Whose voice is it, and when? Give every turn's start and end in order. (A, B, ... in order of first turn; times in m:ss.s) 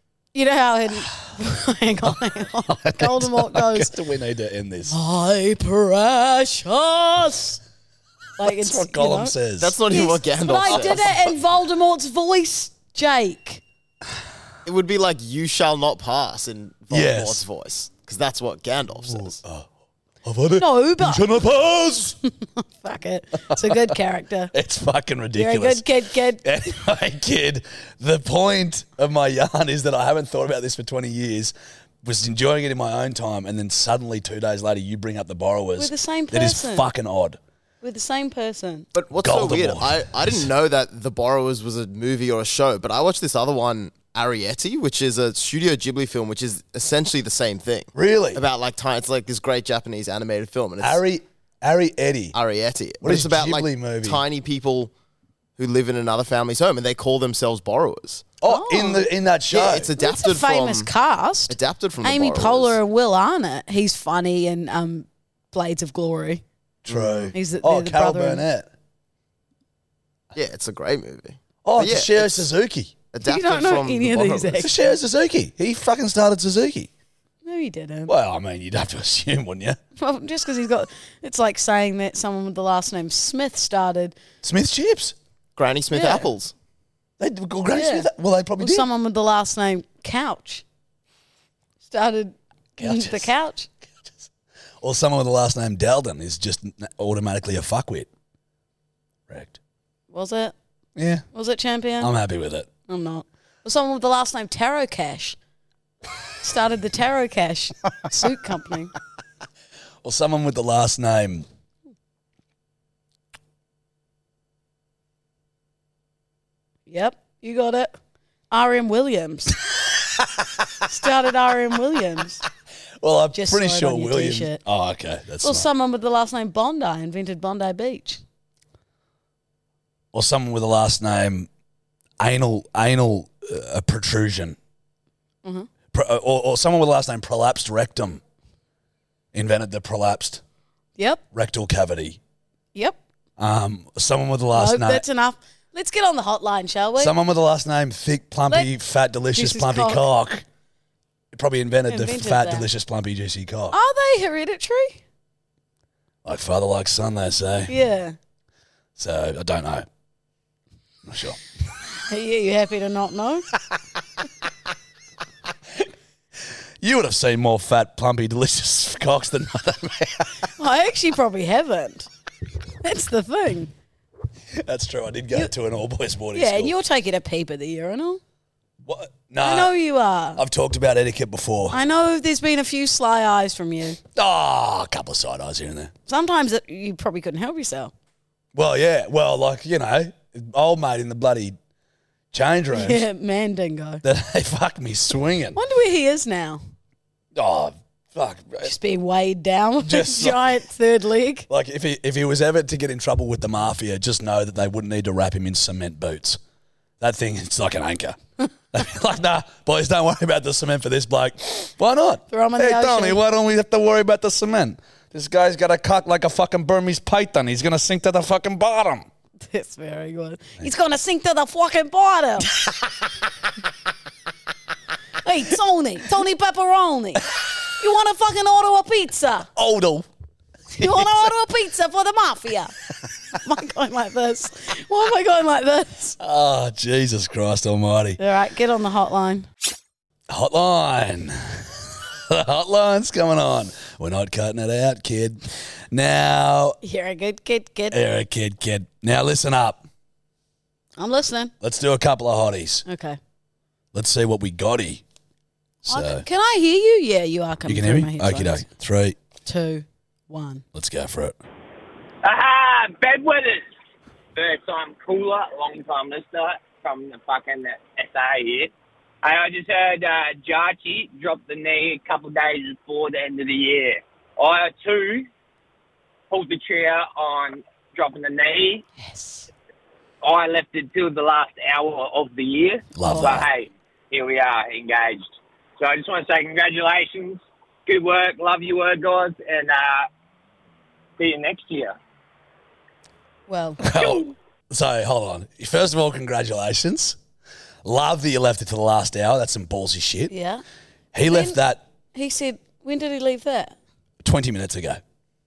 0:00.3-0:03.9 A
0:02.0-0:05.0 B
0:04.9-0:07.6 A
0:08.4-0:09.3 A
0:08.4-0:09.8 B
0:09.6-0:11.2 C
0:09.9-0:13.6 A
0:10.6-0:11.1 B
0:14.6-0:19.4 C
0:16.9-0:17.4 B
0:19.0-0:19.7 B
0:20.2-0:22.2 B
0:20.6-0:21.2 A
0:22.6-0:24.5 A
0:23.5-0:23.9 B
0:24.5-0:25.9 B
0:25.4-0:26.4 A
0:26.4-0:37.4 B
0:35.8-0:36.9 A
0:37.8-0:38.9 A
0:38.9-0:51.0 C
0:39.2-0:40.4 B
0:47.9-0:48.4 B
0:50.8-0:52.4 B
0:52.3-0:54.9 C
0:53.0-0:54.2 B
0:55.6-0:58.3 C
0:58.4-0:59.9 B
0:58.4-0:59.1 A
0:59.5-1:00.9 C
1:00.0-1:06.4 A
1:01.5-1:02.8 C
1:06.8-1:08.7 B
1:06.9-1:07.3 C
1:07.3-1:08.4 A
1:10.3-1:12.5 C
1:11.6-1:12.9 B
1:13.1-1:14.7 C
1:13.2-1:14.9 A
1:14.6-1:16.9 B
1:17.4-1:18.1 A
1:18.1-1:19.8 B
1:20.0-1:24.2 A
1:24.4-1:25.2 B
1:25.6-1:26.5 C
1:25.9-1:26.2 A
1:27.2-1:28.9 B
1:27.7-1:30.6 A
1:31.8-1:33.7 A
1:32.8-1:33.3 B
1:34.0-1:34.2 B
1:34.8-1:38.1 B
1:39.3-1:39.6 B
1:40.1-1:40.5 A
1:41.0-1:41.2 B
1:41.3-1:42.1 A
1:42.0-1:42.7 B
1:42.9-1:45.4 A
1:46.4-1:48.9 A
1:50.0-1:51.5 B
1:56.9-1:58.0 A
1:58.5-1:59.6 A
2:00.9-2:02.4 A
2:03.0-2:05.7 B
2:03.3-2:04.6 A
2:05.4-2:08.2 A
2:10.1-2:11.5 B
2:12.2-2:14.6 B
2:15.4-2:15.7 A
2:15.9-2:18.2 B
2:19.3-2:20.4 B
2:21.0-2:21.2 A
2:21.3-2:22.2 B
2:23.4-2:25.0 B
2:24.5-2:27.1 A
2:27.0-2:30.4 B
2:29.3-2:30.1 A
2:31.3-2:33.8 B
2:31.9-2:32.7 A
2:33.7-2:35.0 A
2:36.2-2:37.7 B
2:37.7-2:38.2 A
2:39.0-2:39.9 B
2:41.0-2:41.4 B
2:42.1-2:43.5 A
2:46.8-2:50.4 B
2:50.6-2:52.1 A
2:52.8-2:53.7 A
2:54.6-2:56.7 B
2:56.3-2:58.2 A
2:58.8-2:59.7 B
2:59.4-3:00.4 A
3:00.4-3:01.8 B
3:01.7-3:04.0 A
3:04.1-3:05.9 B
3:06.1-3:07.9 A
3:08.5-3:11.6 B
3:12.3-3:13.0 B
3:12.7-3:14.0 A
3:14.0-3:15.6 B
3:15.5-3:16.6 A
3:17.3-3:18.7 B
3:18.6-3:21.5 A
3:19.8-3:20.6 B
3:21.5-3:26.4 B
3:27.0-3:28.2 B
3:28.7-3:39.1 B
3:32.3-3:33.2 A
3:39.5-3:42.5 A
3:45.2-3:47.3 A
3:47.8-3:49.5 A
3:49.6-3:50.0 B
3:50.8-3:52.7 A
3:50.8-3:51.2 B
3:53.4-3:56.2 A
3:56.2-3:58.2 B
3:58.2-3:59.5 A
4:00.3-4:06.8 B
4:06.8-4:08.0 A
4:07.9-4:09.8 B
4:11.0-4:11.5 A
4:11.6-4:12.8 B
4:12.8-4:13.2 A
4:13.9-4:15.0 B
4:15.8-4:16.2 B
4:15.9-4:18.6 A
4:17.6-4:19.2 B
4:19.4-4:20.6 A
4:20.7-4:21.4 B
4:22.2-4:23.7 D
4:24.4-4:35.3 D
4:36.3-4:38.8 D
4:39.1-4:39.4 A
4:40.2-4:50.1 D
4:42.9-4:43.5 B
4:43.0-4:43.4 A
4:51.2-4:51.9 D
4:53.5-4:53.9 A
4:53.8-4:57.2 B
4:53.9-4:54.3 D
4:57.8-5:00.3 B
5:00.3-5:00.6 A
5:01.1-5:01.8 B
5:01.3-5:01.6 A
5:02.1-5:03.8 A
5:04.2-5:05.0 B